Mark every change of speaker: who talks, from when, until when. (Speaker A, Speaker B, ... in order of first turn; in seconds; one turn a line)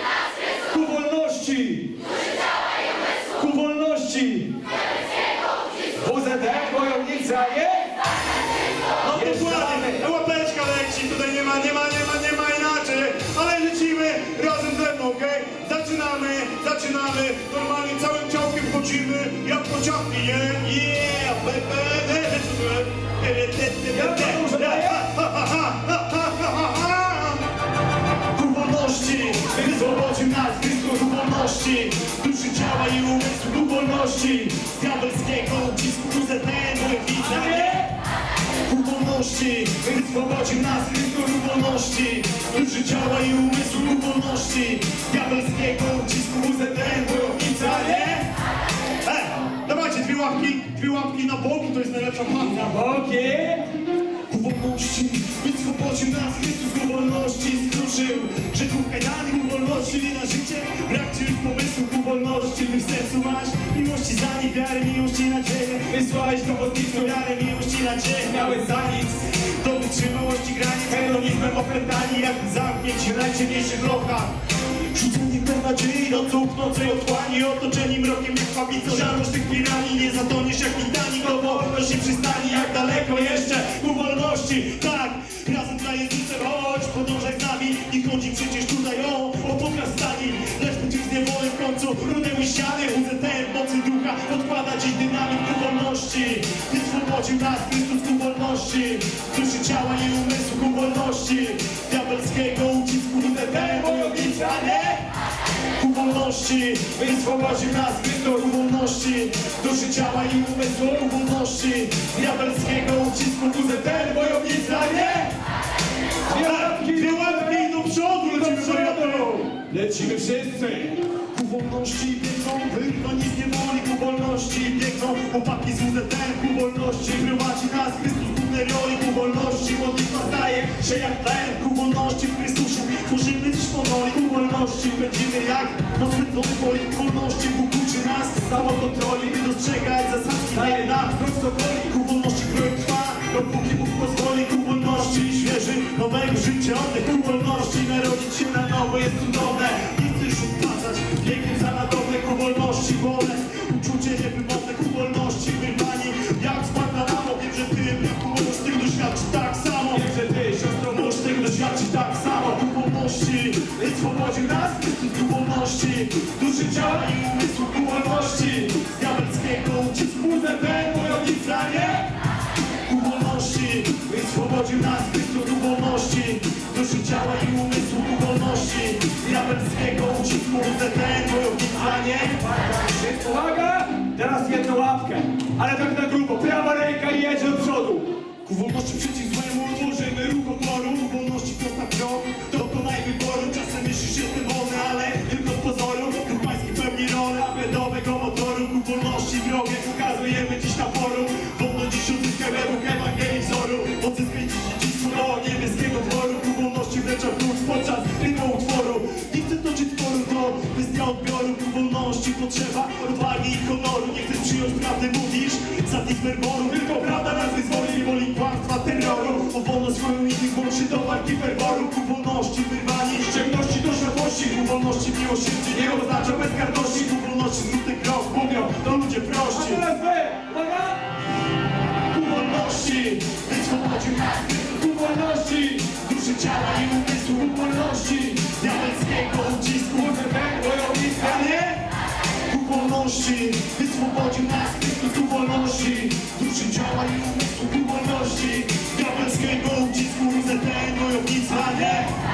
Speaker A: 0.7-1.9
Speaker A: 3.3-4.5
Speaker A: 6.0-7.9
Speaker B: 9.0-27.4
Speaker A: 9.1-10.1
Speaker A: 23.9-25.0
Speaker B: 28.3-37.9
Speaker A: 29.5-30.0
Speaker A: 37.2-37.9
Speaker B: 38.7-48.3
Speaker A: 46.6-48.1
Speaker B: 49.0-52.7
Speaker A: 52.4-53.7
Speaker B: 54.3-74.3
Speaker A: 65.9-67.2
Speaker A: 68.2-69.1
Speaker A: 70.9-72.0
Speaker B: 74.9-105.0
Speaker A: 81.2-83.5
Speaker A: 103.2-105.0
Speaker B: 105.8-115.3
Speaker A: 106.9-108.5
Speaker A: 113.7-115.3
Speaker A: 116.3-117.7
Speaker B: 116.3-119.4
Speaker A: 118.3-121.0
Speaker B: 121.3-160.1
Speaker A: 138.6-139.3
Speaker A: 140.5-141.9
Speaker A: 159.9-161.5
Speaker B: 160.8-172.0
Speaker A: 164.1-164.5
Speaker A: 166.5-167.1
Speaker A: 167.8-168.7
Speaker A: 170.3-172.0
Speaker B: 172.8-182.4
Speaker A: 182.4-188.1
Speaker B: 188.4-229.9
Speaker A: 216.6-218.1
Speaker A: 221.2-221.9
Speaker A: 223.3-224.5
Speaker A: 225.7-227.1
Speaker A: 229.5-231.0
Speaker B: 232.1-240.2
Speaker A: 234.9-235.7
Speaker A: 237.4-238.3
Speaker A: 239.9-241.7
Speaker B: 241.1-241.8
Speaker B: 242.5-252.1